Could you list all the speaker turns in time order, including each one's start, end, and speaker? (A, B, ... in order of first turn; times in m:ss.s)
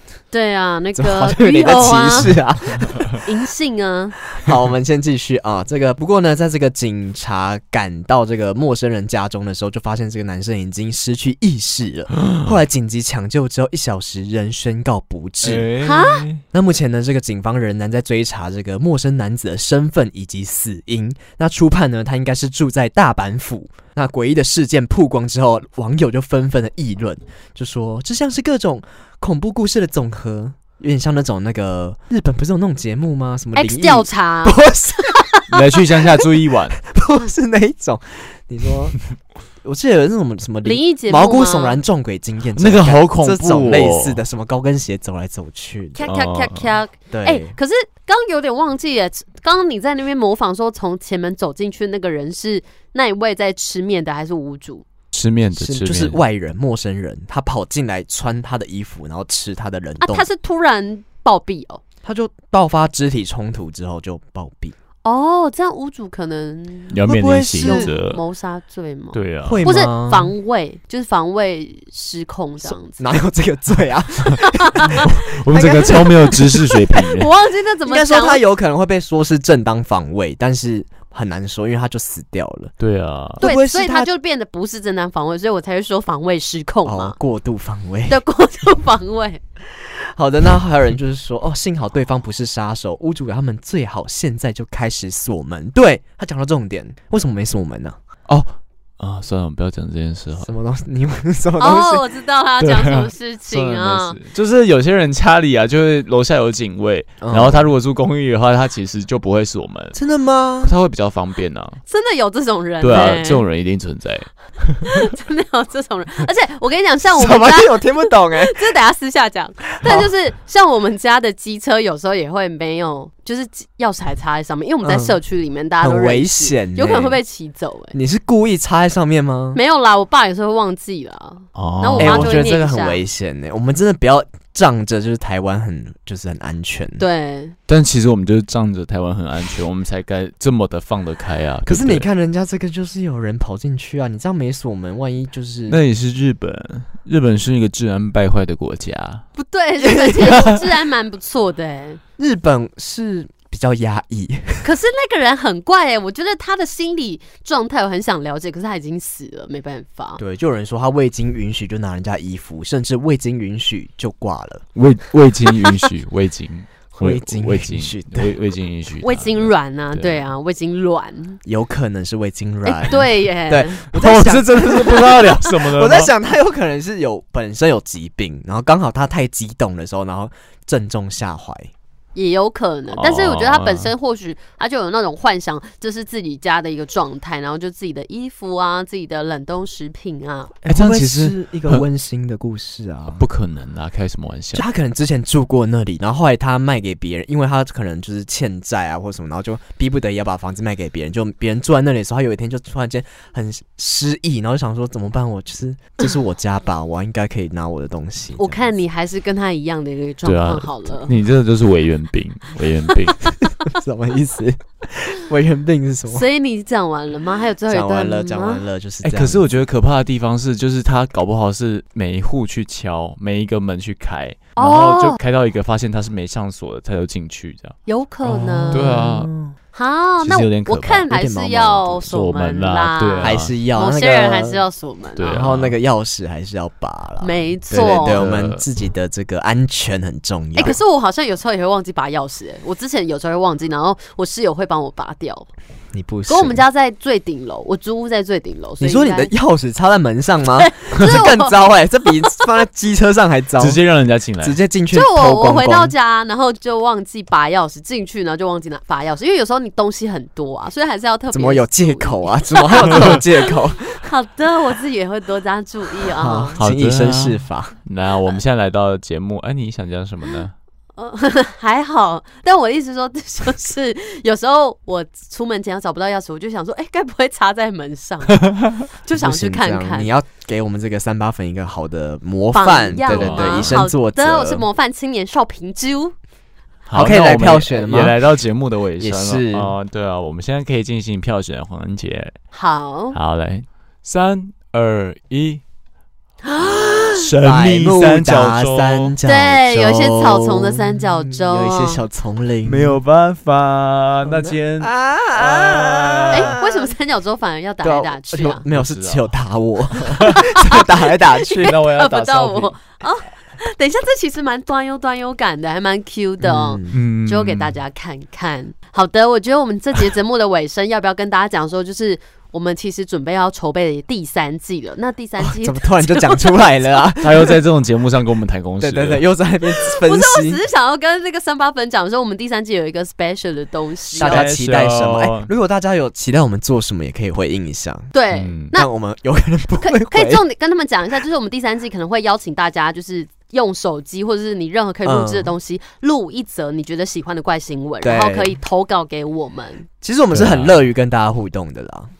0:00.3-0:02.4 A
0:00.9-0:03.2 B
0:03.1-0:04.2 A
0:04.3-0:15.7 B
0:15.4-0:16.4 C
0:15.8-0:16.2 A
0:16.5-0:35.3 B
0:33.5-0:35.6 A
0:35.5-0:36.8 C
0:36.8-0:39.0 B
0:39.6-0:46.0 B
0:40.6-0:41.8 A
0:42.6-0:44.2 C
0:46.0-0:54.8 A
0:46.0-0:46.7 C
0:47.1-0:47.6 B
0:55.1-0:56.2 C
0:55.5-1:00.2 B
1:00.0-1:01.8 A
1:02.0-1:04.7 B
1:05.0-1:07.0 A
1:06.9-1:08.2 C
1:07.0-1:07.9 B
1:07.6-1:13.0 A
1:09.1-1:09.7 C
1:09.4-1:10.3 B
1:12.6-1:16.0 B
1:14.4-1:18.4 A
1:14.9-1:17.3 C
1:17.9-1:22.7 B
1:22.8-1:23.4 C
1:23.4-1:24.1 B
1:23.4-1:27.2 A
1:26.8-1:28.2 B
1:28.1-1:29.4 A
1:29.8-1:38.0 B
1:38.3-1:40.5 C
1:40.4-1:42.0 B
1:41.6-1:44.2 A
1:42.6-1:50.0 C
1:47.2-1:47.7 B
1:49.9-1:50.7 B
1:50.6-1:51.8 C
1:51.9-1:53.4 A
1:52.8-1:55.0 C
1:54.9-2:07.9 A
1:57.1-1:58.6 B
1:59.8-2:00.1 B
2:04.8-2:05.2 B
2:05.8-2:07.2 B
2:07.9-2:09.6 B
2:09.5-2:13.0 A
2:11.5-2:12.5 C
2:12.0-2:17.0 B
2:17.0-2:17.5 A
2:17.7-2:22.1 C
2:21.6-2:25.8 B
2:25.7-2:29.2 C
2:29.4-2:32.0 A
2:30.0-2:30.3 B
2:32.2-2:34.7 B
2:34.6-2:40.2 A
2:40.2-2:44.6 B
2:44.7-2:50.2 C
2:46.9-2:48.3 B
2:49.0-2:51.4 A
2:51.4-3:01.7 B
2:52.6-2:53.9 A
2:53.9-2:56.1 C
3:02.1-3:10.5 A
3:02.9-3:03.9 C
3:10.6-3:11.8 C
3:10.6-3:13.2 B
3:13.2-3:14.6 C
3:14.5-3:28.7 B
3:28.4-3:31.1 A
3:30.2-3:33.4 C
3:33.6-3:36.2 B
3:36.1-3:38.6 A
3:37.7-3:39.5 B
3:39.0-3:49.3 C
3:44.6-3:45.2 A
3:47.9-3:49.0 A
3:48.7-3:49.5 B
3:49.7-3:55.4 A
3:50.2-3:51.1 C
3:51.1-3:52.0 B
3:52.0-3:53.5 C
3:53.2-3:54.6 B
3:55.2-3:55.8 C
3:55.2-4:00.8 B
3:57.2-3:58.3 A
3:57.7-3:58.6 C
4:00.5-4:05.5 A
4:05.9-4:06.6 B
4:06.3-4:09.3 A
4:08.8-4:13.8 B
4:10.6-4:12.4 A
4:13.6-4:14.6 C
4:14.4-4:15.9 B
4:14.9-4:26.6 A
4:21.3-4:24.1 B
4:26.0-4:27.7 B
4:26.6-4:30.5 C
4:31.0-4:40.1 A
4:38.4-4:38.7 C
4:39.1-4:44.6 B
4:42.5-4:46.1 A
4:43.0-4:43.8 C
4:46.9-4:52.3 C
4:46.9-4:48.2 B
4:49.0-4:49.7 B
4:52.5-4:53.2 A
4:53.1-4:55.6 C
4:56.4-4:57.3 A
4:57.2-4:59.1 C
4:57.4-5:03.0 B
4:59.2-5:02.0 A
5:02.6-5:06.5 C
5:04.2-5:06.9 B
5:06.3-5:08.6 A
5:07.8-5:11.8 B
5:08.7-5:09.3 C
5:09.9-5:10.4 C
5:10.2-5:26.8 A
5:11.5-5:12.8 C
5:16.4-5:17.0 B
5:16.9-5:17.8 C
5:25.4-5:27.6 B
5:27.2-5:29.2 C
5:28.8-5:30.6 B
5:29.8-5:34.4 A
5:34.1-5:35.5 C
5:34.2-5:38.1 B
5:38.1-5:38.9 A
5:38.3-5:38.7 C
5:38.7-5:40.4 B
5:39.8-5:49.9 A
5:45.0-5:45.5 B
5:48.0-5:48.6 B
5:50.0-5:52.1 B
5:50.3-5:50.8 C